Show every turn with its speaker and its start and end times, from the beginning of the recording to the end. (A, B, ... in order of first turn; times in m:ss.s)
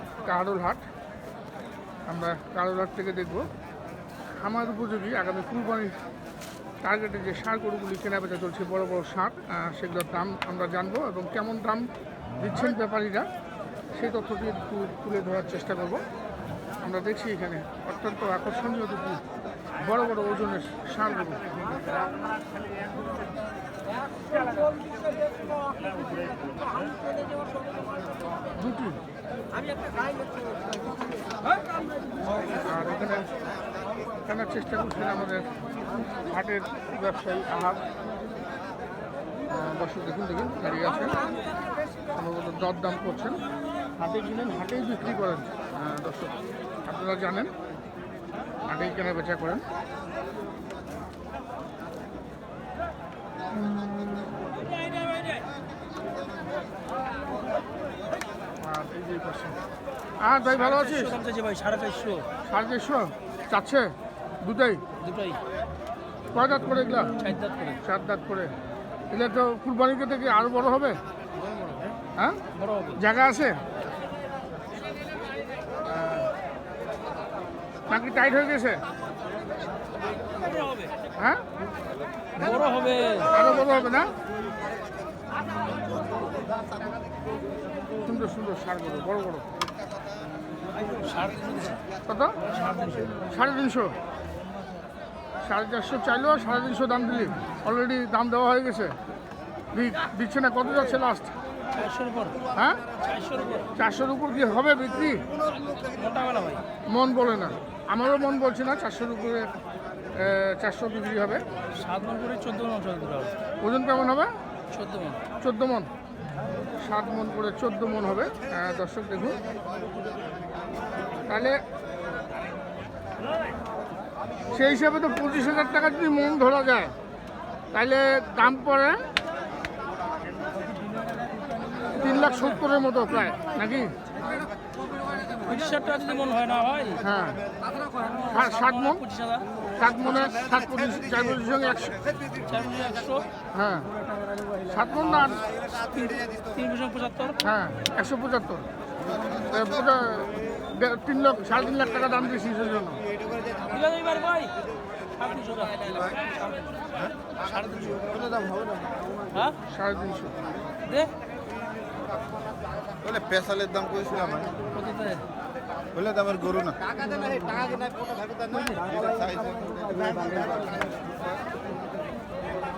0:00.2-0:00.9 A
0:02.1-0:03.5 A
0:04.3-0:06.0 A
0:06.8-0:13.3 A
0:13.9-0:16.0 A
0:16.8-0:19.2 A
0:19.7-0:21.7 A
0:28.5-0:29.0 A
0:32.5-0:33.4 A
0:34.2-0:35.6 A
0:36.2-0:37.9 A
0:39.5-0:41.4 A
0:42.1-0:43.4 A
0:44.0-0:46.3 A
0:46.8-0:47.5 A
0:48.7-0:49.7 A
0:54.9-0:55.4 B
0:58.6-0:59.6 A
1:00.2-1:01.2 A
1:00.4-1:02.3 B
1:02.5-1:04.8 A
1:05.0-1:05.4 B
1:06.3-1:07.2 A
1:07.2-1:07.8 B
1:07.8-1:08.5 A
1:09.1-1:11.0 A
1:12.2-1:12.4 A
1:12.5-1:13.0 B
1:13.0-1:13.6 A
1:15.9-1:16.3 A
1:17.9-1:18.8 A
1:20.4-1:20.9 B
1:21.2-1:21.4 A
1:22.4-1:23.4 B
1:23.3-1:24.2 A
1:28.0-1:29.4 A
1:30.8-1:31.8 B
1:32.0-1:32.4 A
1:32.4-1:33.3 B
1:33.1-1:34.0 A
1:35.4-1:39.0 A
1:39.7-1:41.4 A
1:41.7-1:43.7 B
1:42.5-1:42.8 A
1:43.8-1:45.3 A
1:45.7-1:46.6 B
1:46.9-1:49.5 A
1:50.1-1:51.4 A
1:51.7-1:53.4 B
1:53.6-1:54.3 A
1:54.7-1:55.2 B
1:55.4-1:55.9 A
1:56.7-1:59.4 A
2:01.2-2:01.6 A
2:04.5-2:06.9 A
2:07.7-2:09.0 A
2:11.8-2:12.6 B
2:11.8-2:13.9 A
2:15.3-2:17.1 B
2:17.0-2:17.4 A
2:18.0-2:19.5 B
2:18.2-2:19.0 A
2:19.7-2:22.1 A
2:22.3-2:23.3 B
2:23.5-2:24.0 A
2:24.5-2:25.5 A
2:25.7-2:27.4 B
2:27.4-2:28.7 A
2:29.0-2:29.8 C
2:29.4-2:33.0 A
2:33.6-2:34.5 B
2:35.2-2:38.2 B
2:38.1-2:38.9 C
2:39.3-2:39.6 B
2:39.7-2:40.4 A
2:40.8-2:41.1 B
2:43.0-2:44.5 C
2:44.6-2:45.2 B
2:45.9-2:46.8 C
2:47.1-2:47.8 B
2:48.5-2:48.8 B
2:48.7-2:51.2 C